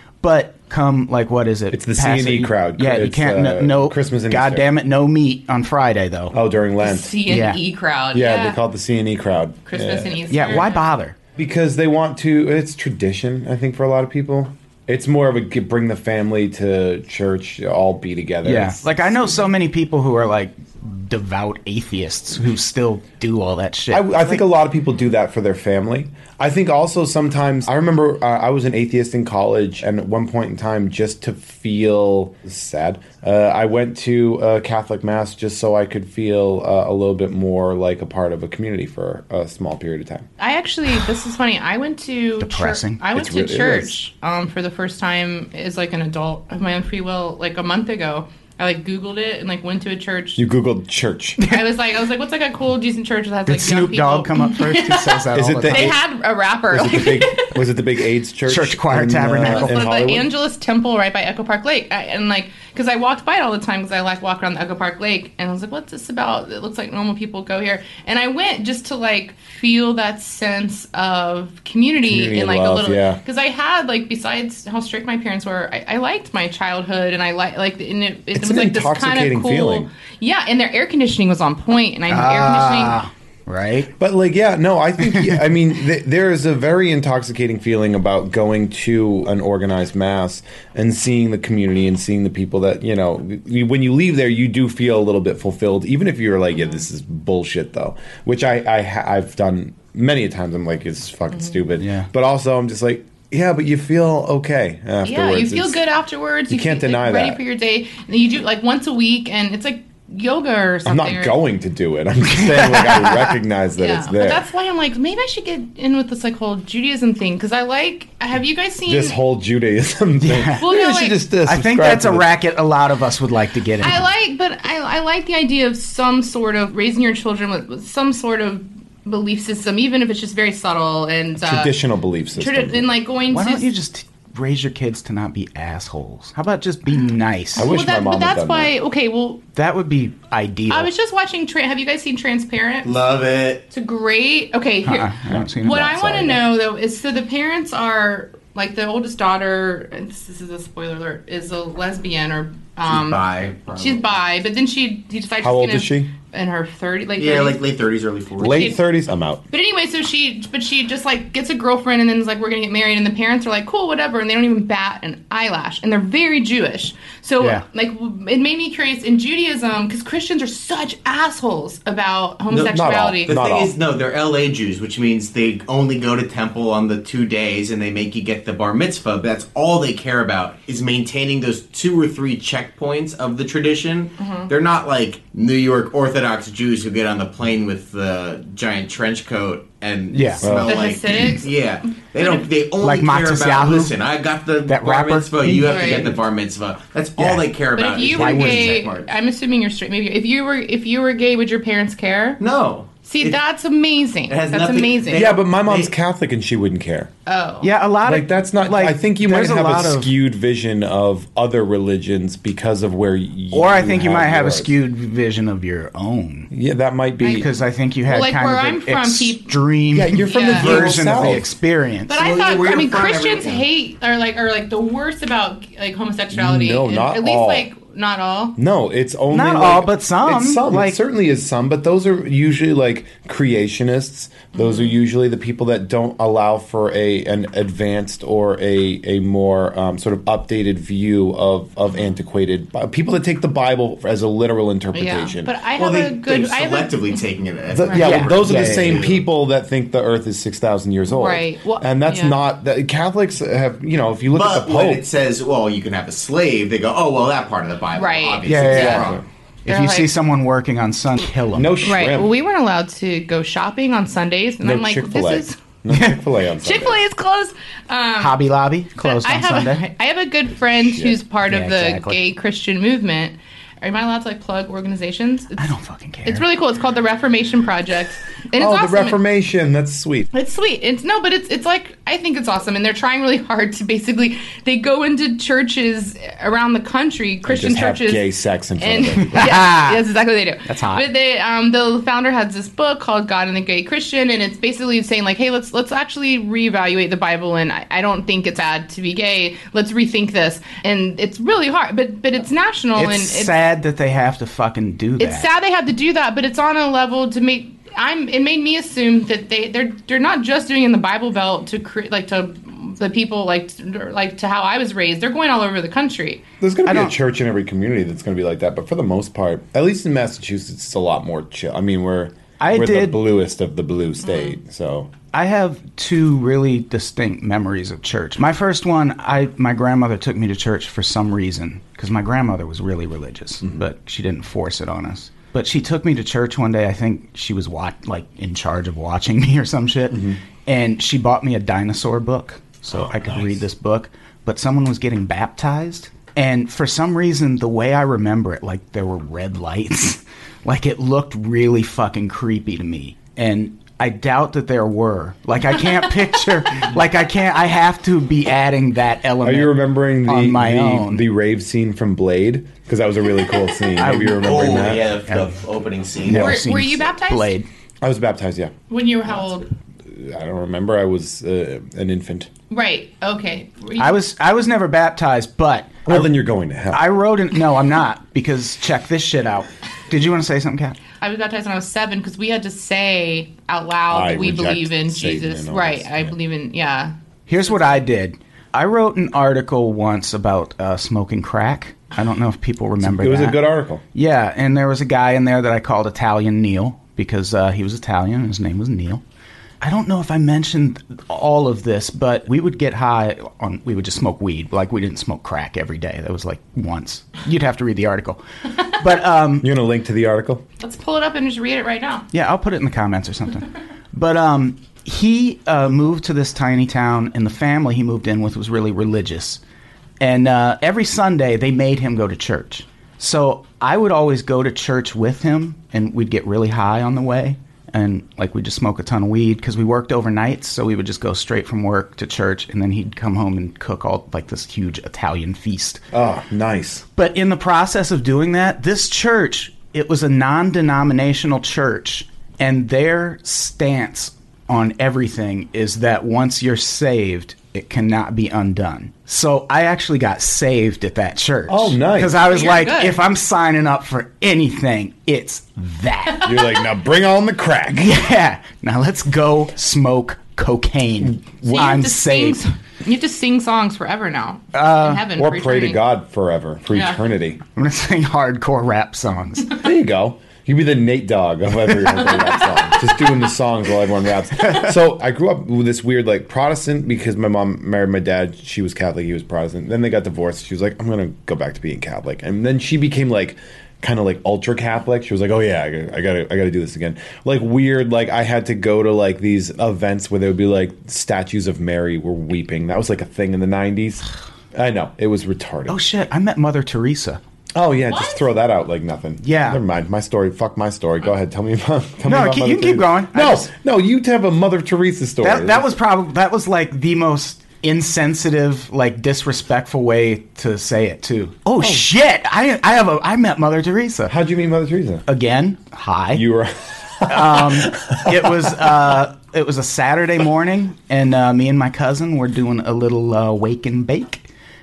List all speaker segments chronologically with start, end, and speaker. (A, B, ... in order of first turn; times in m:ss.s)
0:00.2-0:06.4 A
0:01.7-0:04.7 B
0:06.3-0:07.3 B
0:06.8-0:08.6 C
0:07.3-0:07.6 A
0:08.1-0:10.6 B
0:09.7-0:10.8 C
0:10.3-0:11.2 A
0:11.4-0:19.3 B
0:18.4-0:24.5 A
0:23.9-0:40.3 B
0:40.4-0:50.4 C
0:42.4-0:43.0 A
0:43.1-0:43.9 B
0:50.4-0:51.4 B
0:51.4-0:57.6 C
0:53.5-0:56.0 A
0:55.3-0:56.0 B
0:56.7-1:00.3 B
0:58.5-0:59.8 A
0:59.5-1:23.0 C
1:12.0-1:13.2 B
1:18.3-1:19.9 B
1:22.1-1:23.9 A
1:24.0-1:45.8 B
1:25.1-1:25.4 A
1:41.8-1:42.1 A
1:45.0-1:51.4 C
1:46.5-1:47.4 B
1:50.8-1:54.4 B
1:52.3-1:53.3 A
1:53.8-1:59.2 C
1:58.9-2:02.3 B
2:00.2-2:00.6 A
2:00.6-2:01.2 C
2:01.4-2:04.1 A
2:03.8-2:11.8 C
2:11.4-2:12.9 B
2:12.4-2:13.7 C
2:13.3-2:17.7 A
2:17.6-2:18.8 B
2:17.6-2:19.4 C
2:19.6-2:20.9 A
2:20.7-2:22.9 C
2:22.8-2:23.7 D
2:23.7-2:33.2 C
2:24.8-2:26.0 A
2:25.6-2:26.4 B
2:32.9-2:34.2 D
2:33.8-2:37.6 C
2:35.4-2:36.1 B
2:37.2-2:38.8 D
2:38.4-2:39.4 B
2:39.5-2:53.3 C
2:52.5-2:53.8 B
2:52.5-3:19.1 D
3:04.2-3:04.5 C
3:10.1-3:10.5 A
3:10.4-3:10.8 B
3:10.7-3:12.5 C
3:12.8-3:13.9 A
3:14.7-3:16.2 A
3:15.6-3:16.1 C
3:17.2-3:18.9 A
3:17.8-3:22.4 C
3:22.4-3:23.4 D
3:23.0-3:25.3 C
3:24.3-3:25.9 D
3:25.1-3:27.1 B
3:27.3-3:27.7 C
3:27.6-3:30.1 A
3:28.0-3:34.7 B
3:33.5-3:36.5 A
3:36.5-3:37.5 B
3:37.2-3:37.5 C
3:37.3-3:42.2 A
3:38.0-3:39.6 C
3:39.9-3:41.5 B
3:40.2-3:41.0 C
3:42.1-3:48.6 C
3:42.2-3:43.6 D
3:46.3-3:47.7 B
3:48.6-4:05.5 B
3:49.3-3:51.0 A
3:54.6-3:55.0 C
4:04.9-4:07.2 C
4:05.8-4:09.2 D
4:07.7-4:15.1 B
4:07.8-4:08.0 C
4:08.0-4:09.1 A
4:11.1-4:12.4 C
4:14.3-4:19.2 D
4:18.0-4:19.0 C
4:18.5-4:19.1 A
4:18.6-4:19.2 B
4:19.6-4:21.8 A
4:19.7-4:20.1 C
4:21.5-4:22.4 B
4:21.8-4:25.6 C
4:24.6-4:27.0 B
4:25.9-4:26.2 A
4:26.6-4:28.4 C
4:28.2-4:29.9 A
4:29.0-4:35.7 C
4:30.7-4:31.2 B
4:31.5-4:32.2 A
4:35.6-4:36.5 A
4:36.2-4:39.2 C
4:38.6-4:40.3 B
4:40.3-4:48.3 C
4:47.5-4:49.7 B
4:48.8-5:03.6 C
4:49.3-4:50.0 A
4:50.6-4:51.0 A
5:03.0-5:05.5 A
5:05.2-5:16.4 C
5:16.6-5:25.1 B
5:16.9-5:17.1 A
5:22.6-5:23.2 A
5:24.2-5:24.6 C
5:25.3-6:01.2 A
5:40.1-5:40.4 B
5:42.9-5:43.5 B
5:59.4-6:05.1 B
6:04.0-6:05.5 A
6:04.1-6:06.6 D
6:06.3-6:07.7 A
6:06.3-6:07.5 C
6:08.0-6:08.8 B
6:08.9-6:09.7 C
6:10.1-6:12.5 B
6:12.7-6:14.2 C
6:14.0-6:16.3 A
6:16.1-6:17.1 B
6:16.9-6:21.0 A
6:21.2-6:27.1 C
6:24.1-6:26.3 B
6:27.5-6:33.6 A
6:27.6-6:28.0 C
6:33.0-6:34.0 B
6:34.1-6:39.2 A
6:39.8-6:49.7 A
6:49.6-6:50.6 B
6:50.8-6:52.3 C
6:52.3-6:59.6 A
7:00.2-7:16.0 A
7:16.1-7:17.0 B
7:17.2-7:36.5 A
7:31.7-7:32.4 B
7:32.4-7:33.2 C
7:36.4-7:38.2 B
7:37.9-7:42.6 A
7:41.2-7:42.0 B
7:41.7-7:46.1 C
7:44.7-7:45.3 A
7:45.4-7:47.6 B
7:46.9-7:47.2 C
7:47.8-7:49.8 A
7:49.8-8:16.0 B
7:54.6-7:54.9 A
8:15.9-8:17.4 A
8:17.8-8:25.9 B
8:18.1-8:18.4 C
8:19.4-8:19.8 A
8:22.2-8:23.7 A
8:25.4-8:34.3 A
8:31.8-8:32.1 B
8:34.3-8:35.2 B
8:35.3-8:36.4 A
8:36.3-8:38.8 B
8:37.3-8:44.4 A